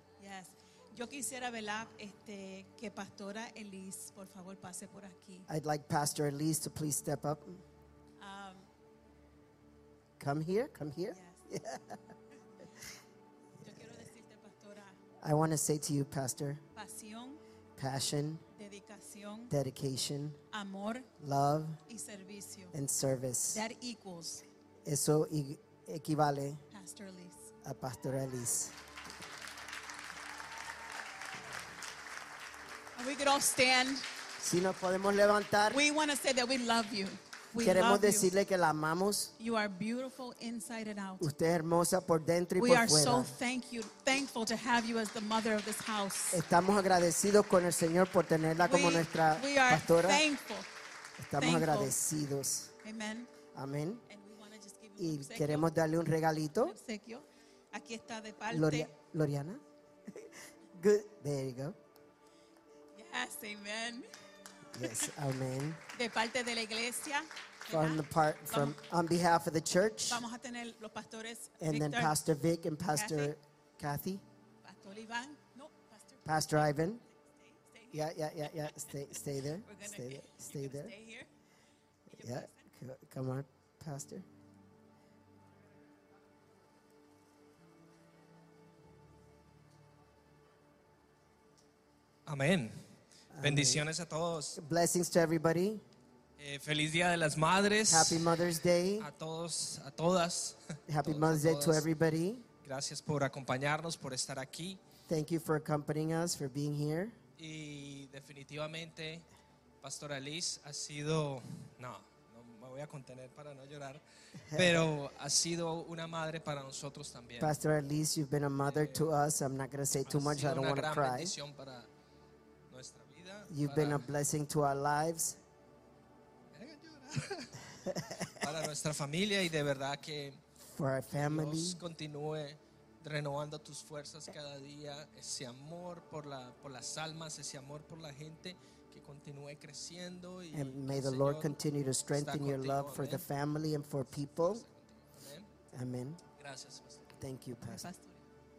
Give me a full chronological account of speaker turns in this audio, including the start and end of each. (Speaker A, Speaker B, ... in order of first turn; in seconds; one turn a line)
Speaker A: 0.2-5.5
Speaker B: 5.5-7.6
Speaker A: 8.2-8.7
Speaker B: 10.2-12.0
Speaker A: 11.1-11.4
Speaker A: 13.6-15.0
Speaker B: 15.2-16.6
Speaker A: 16.8-17.4
Speaker B: 17.8-18.4
Speaker A: 18.6-19.5
Speaker B: 19.5-20.4
Speaker A: 20.5-21.1
Speaker B: 21.2-21.8
Speaker A: 21.9-22.8
Speaker B: 22.7-23.6
Speaker A: 23.5-24.4
Speaker B: 24.9-26.6
Speaker A: 26.7-27.5
Speaker B: 27.6-28.7
Speaker A: 33.0-34.1
Speaker B: 34.4-35.8
Speaker A: 35.7-38.3
Speaker B: 37.6-39.3
Speaker A: 39.4-41.3
Speaker B: 41.2-43.3
Speaker A: 42.6-46.4
Speaker B: 46.3-50.2
Speaker A: 48.6-50.7
Speaker B: 51.2-52.7
Speaker A: 51.4-52.0
Speaker A: 52.8-53.4
Speaker B: 53.5-54.0
Speaker A: 54.1-55.7
Speaker B: 55.0-56.8
Speaker A: 56.6-58.9
Speaker B: 58.5-59.6
Speaker B: 60.1-61.8
Speaker A: 63.0-64.1
Speaker B: 64.7-65.8
Speaker A: 66.0-68.8
Speaker B: 67.7-70.2
Speaker A: 70.1-72.2
Speaker B: 71.6-74.2
Speaker A: 72.9-73.3
Speaker A: 74.6-78.9
Speaker B: 76.3-77.0
Speaker B: 77.9-80.9
Speaker A: 79.6-81.3
Speaker A: 82.1-82.7
Speaker B: 82.2-84.3
Speaker C: 92.3-92.8
Speaker B: 93.3-93.9
Speaker C: 93.4-94.6
Speaker B: 94.5-95.8
Speaker C: 96.4-98.3
Speaker B: 97.9-99.1
Speaker C: 99.0-101.8
Speaker B: 100.9-102.5
Speaker C: 102.6-104.8
Speaker B: 105.1-107.2
Speaker C: 107.4-109.3
Speaker C: 109.8-114.0
Speaker B: 114.5-114.9
Speaker C: 114.5-117.5
Speaker B: 117.4-121.3
Speaker C: 118.7-119.1
Speaker C: 120.0-121.9
Speaker C: 122.7-124.1
Speaker B: 123.5-125.4
Speaker C: 126.5-127.5
Speaker B: 128.0-128.3
Speaker C: 128.4-130.4
Speaker B: 130.7-131.8
Speaker C: 131.1-141.5
Speaker B: 140.5-144.6
Speaker C: 142.1-143.3
Speaker C: 144.3-145.5
Speaker B: 145.7-146.2
Speaker C: 146.4-147.2
Speaker B: 147.2-147.8
Speaker A: 147.6-148.2